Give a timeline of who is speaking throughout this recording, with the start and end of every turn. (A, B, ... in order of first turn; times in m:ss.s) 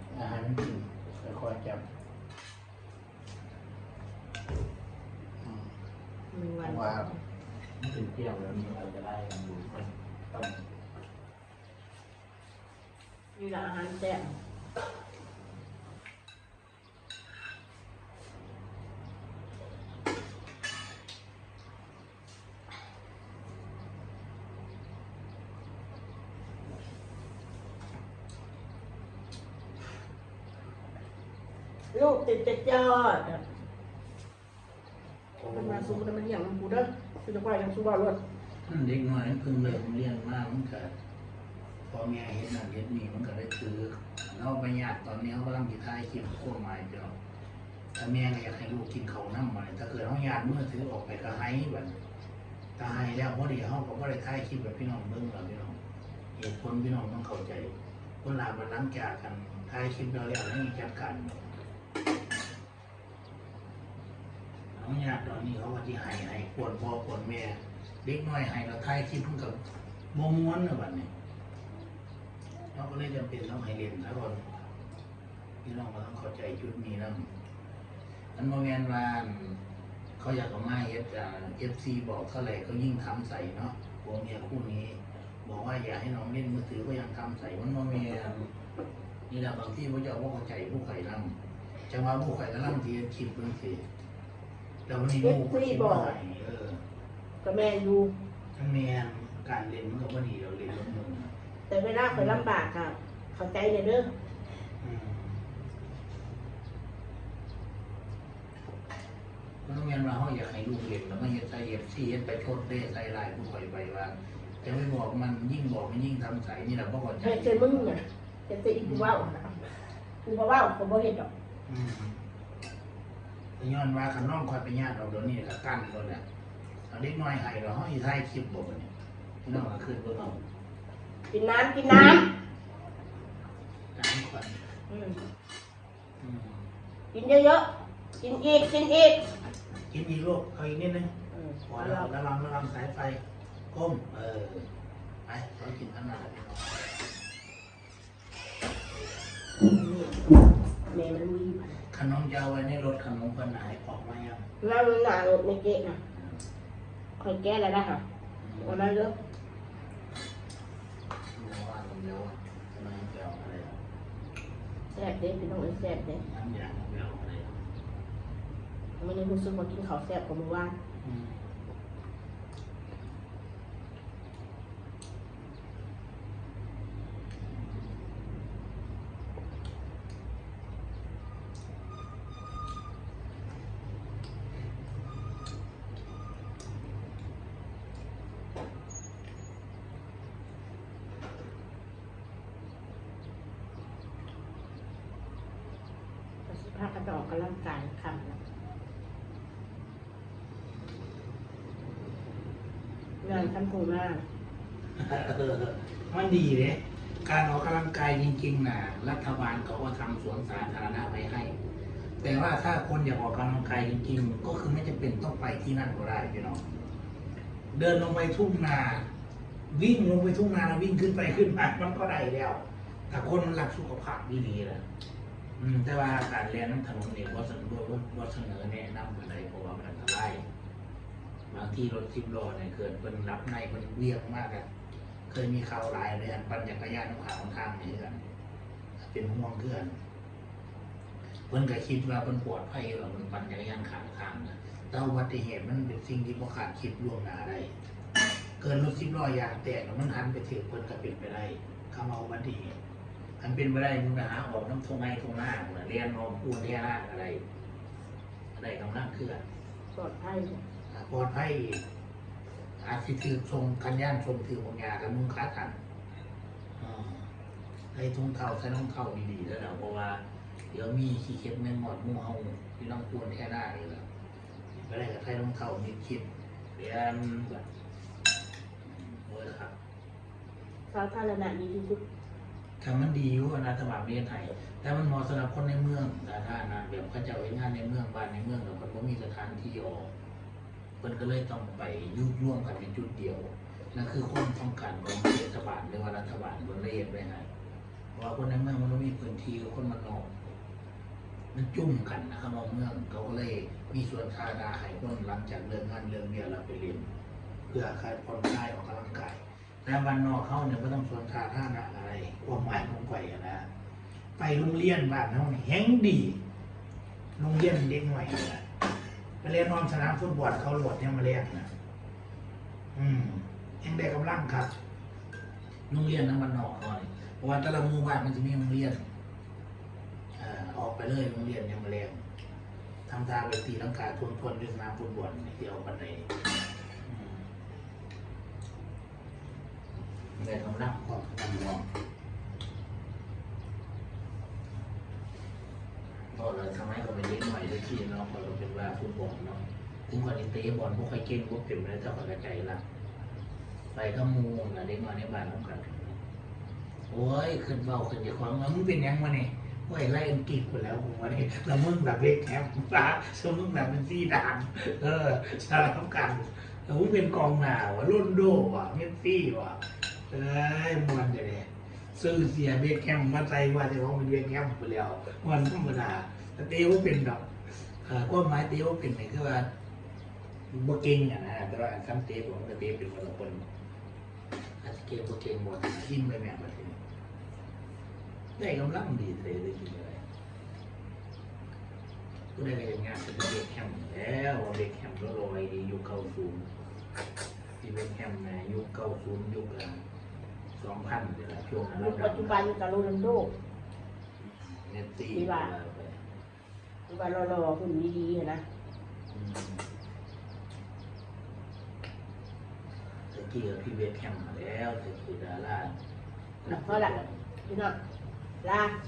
0:00.1-0:01.8 A
0:05.4-0:05.7 A
0:06.3-0:07.2 B
0:06.6-0:07.1 A
0:07.8-0:10.6 A
0:13.4-0:14.4 B
0:31.9-0:33.4 B
0:35.3-0:36.0 A
0:35.5-0:38.2 B
0:38.6-0:40.9 A
0:41.9-0:47.1 A
0:47.9-0:51.9 A
0:52.8-0:55.8 A
0:56.4-1:01.4 A
1:04.7-1:11.1 A
1:12.7-1:14.5 A
1:15.6-1:17.3 A
1:18.3-1:19.6 A
1:20.2-1:28.5 A
1:29.3-1:31.3 A
1:31.9-1:33.8 A
1:34.9-1:36.8 A
1:35.2-1:36.1 B
1:37.4-1:38.1 B
1:38.6-1:41.3 A
1:41.7-1:44.1 B
1:42.1-1:42.5 A
1:44.8-1:45.4 A
1:49.6-1:58.0 A
1:57.2-2:01.3 B
1:58.8-1:59.3 A
2:01.7-2:02.2 A
2:03.6-2:06.2 A
2:06.9-2:08.9 A
2:09.4-2:10.4 A
2:11.3-2:12.3 B
2:13.9-2:14.6 A
2:14.9-2:15.2 B
2:16.2-2:16.6 A
2:17.1-2:17.6 B
2:18.2-2:19.3 B
2:19.9-2:21.1 A
2:21.3-2:22.1 B
2:21.7-2:24.7 A
2:25.2-2:26.8 A
2:29.6-2:31.8 B
2:31.9-2:34.5 A
2:34.6-2:36.0 B
2:36.1-2:36.4 A
2:37.2-2:38.0 B
2:38.4-2:38.8 A
2:38.6-2:39.2 B
2:41.3-2:43.8 A
2:44.9-2:46.2 B
2:46.1-2:47.6 A
2:49.0-2:50.8 B
2:51.0-2:51.5 A
3:16.5-3:18.4 B
3:23.2-3:24.2 B
3:24.9-3:31.5 A
3:32.2-3:36.6 A
3:37.7-3:39.1 A
3:39.7-3:44.8 A
3:45.6-3:50.4 A
3:51.5-3:54.7 A
3:55.3-3:58.2 A
3:59.0-4:00.0 A
4:01.5-4:07.7 A
4:08.6-4:12.8 A
4:13.4-4:17.4 A
4:18.5-4:19.4 A
4:19.9-4:20.6 B
4:20.9-4:21.8 A
4:22.8-4:25.8 A
4:26.8-4:27.2 A
4:27.9-4:34.0 A
4:34.8-4:37.6 A
4:38.8-4:39.7 A
4:40.9-4:42.0 B
4:42.8-4:50.1 A
4:51.0-4:57.5 A
4:58.1-5:00.3 A
5:01.5-5:07.1 A
5:07.7-5:13.7 A
5:14.4-5:16.4 A
5:17.4-5:18.6 A
5:19.4-5:21.7 A
5:22.9-5:24.7 A
5:25.9-5:29.0 A
5:30.3-5:32.2 A
5:33.1-5:36.3 A
5:37.0-5:37.4 A
5:40.4-5:41.9 A
5:46.3-5:52.8 A
5:53.9-5:56.2 A
5:57.1-6:19.7 A
6:20.7-6:23.6 A
6:24.8-6:27.0 A
6:28.6-6:30.2 A
6:32.5-6:36.7 A
6:37.8-6:40.0 A
6:40.8-6:42.7 A
6:41.9-6:43.5 B
6:44.4-6:46.2 A
6:45.3-6:45.7 B
6:47.1-6:48.6 B
6:49.3-6:49.8 A
6:53.3-6:55.9 A
6:56.6-6:57.4 A
6:56.7-6:57.1 B
6:57.6-6:58.0 B
6:58.6-6:59.0 B